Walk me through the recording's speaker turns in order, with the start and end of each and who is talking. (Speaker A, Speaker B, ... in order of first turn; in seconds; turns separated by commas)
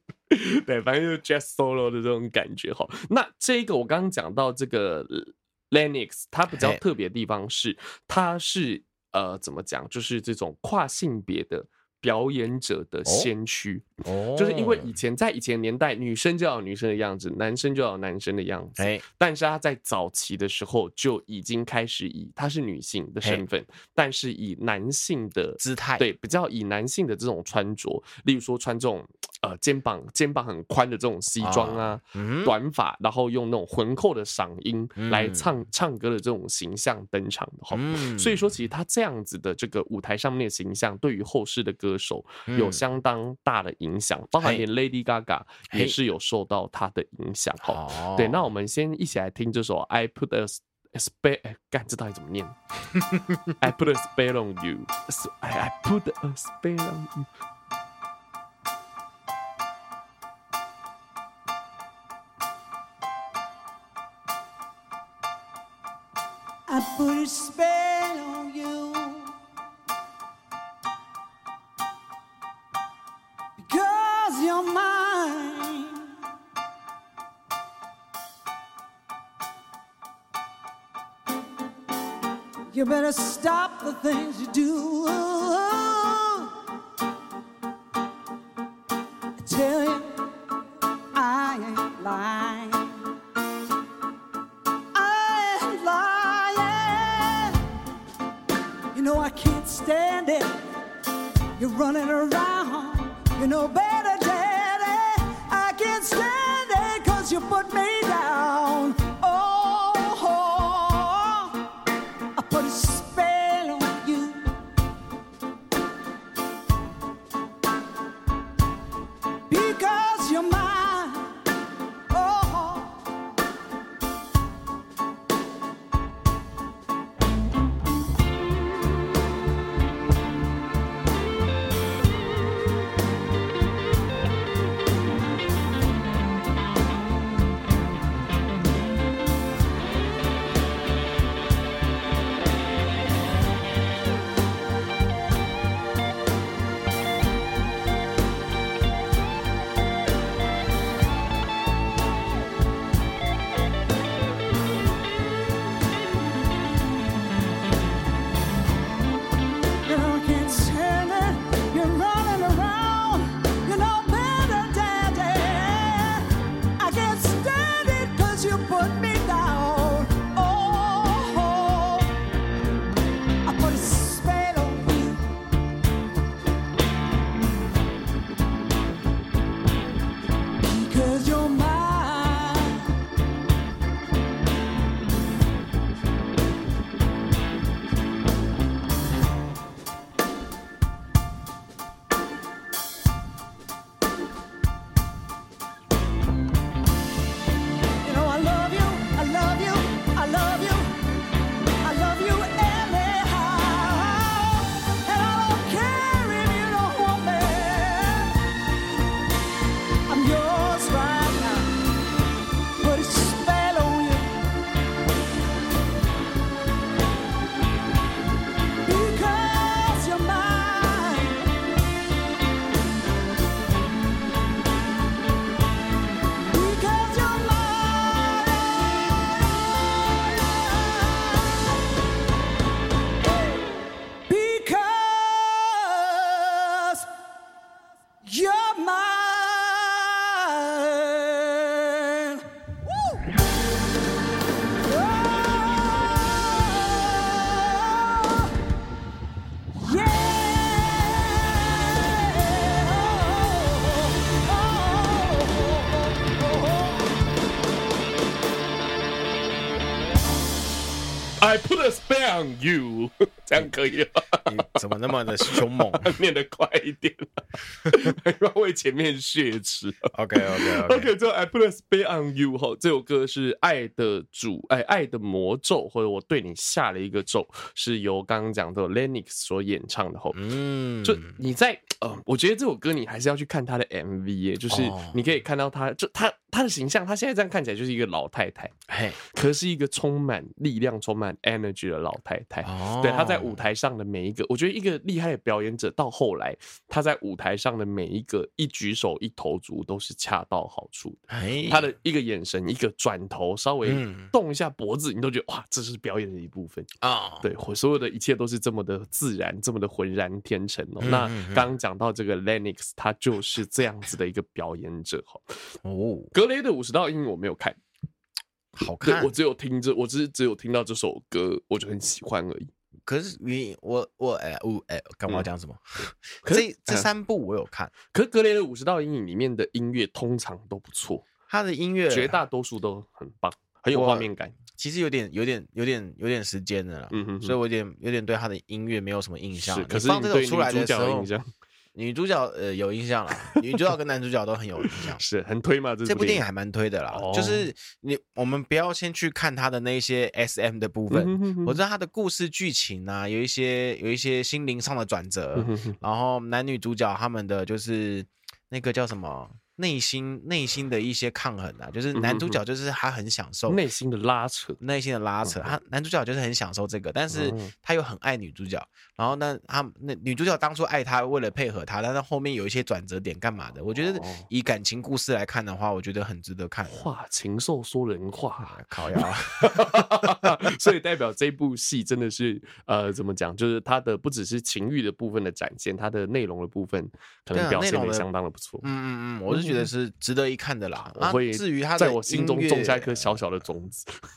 Speaker A: 0.3-52.6, Speaker B: 6.5-6.8, Speaker B: 13.0-13.3, Speaker B: 14.0-14.9, Speaker B: 18.8-19.0, Speaker B: 25.6-26.1, Speaker B: 31.4-32.5, Speaker B: 35.0-35.5, Speaker B: 37.7-38.4, Speaker B: 42.5-42.8, Speaker B: 45.7-45.9, Speaker B: 47.6-48.4, Speaker A: 53.6-57.3, Speaker C: 66.7-69.3, Speaker C: 73.6-76.1, Speaker C: 82.7-86.6, Speaker C: 89.4-90.1, Speaker C: 91.1-93.0, Speaker C: 94.9-97.6, Speaker C: 98.9-100.6, Speaker C: 101.6-111.6, Speaker C: 112.3-114.5, Speaker C: 119.5-121.4, Speaker C: 122.1-123.0, Speaker C: 159.8-172.2, Speaker C: 173.4-175.3, Speaker C: 180.6-182.9, Speaker C: 198.0-200.9, Speaker C: 201.8-208.4, Speaker C: 210.1-211.7, Speaker C: 212.8-214.3, Speaker C: 218.8-221.4, Speaker C: 226.5-231.6, Speaker C: 234.3-237.1, Speaker C: 238.2-243.3, Speaker C: 244.8-248.5, Speaker C: 249.7-257.1, Speaker A: 261.4-264.6, Speaker B: 264.5-266.1, Speaker A: 265.4-280.4, Speaker B: 270.1-271.1, Speaker B: 280.3-281.4, Speaker A: 281.0-306.9, Speaker B: 284.7-285.2, Speaker B: 288.9-289.2, Speaker B: 292.6-293.6, Speaker B: 301.3-301.9, Speaker B: 303.8-304.3, Speaker B: 307.0-307.5, Speaker A: 307.4-315.4, Speaker B: 311.0-311.7, Speaker B: 315.8-316.3, Speaker A: 316.3-317.8, Speaker B: 318.8-319.3, Speaker A: 319.0-322.7, Speaker B: 323.1-327.9, Speaker A: 326.4-327.1, Speaker A: 328.1-331.2, Speaker B: 331.5-332.4, Speaker A: 332.1-334.6, Speaker B: 333.9-341.3, Speaker A: 337.1-337.6, Speaker A: 339.6-341.5, Speaker B: 341.9-345.2, Speaker A: 344.8-346.4, Speaker B: 346.1-363.8, Speaker A: 347.1-347.7, Speaker A: 351.1-351.8, Speaker A: 355.5-356.0, Speaker A: 362.1-362.6, Speaker A: 363.7-364.8, Speaker B: 364.8-377.1, Speaker A: 365.4-365.7, Speaker A: 367.3-367.7, Speaker A: 374.0-374.5, Speaker A: 376.8-388.9, Speaker B: 378.6-380.6, Speaker B: 387.5-388.3, Speaker B: 388.8-393.5, Speaker A: 389.5-389.9, Speaker A: 391.1-394.1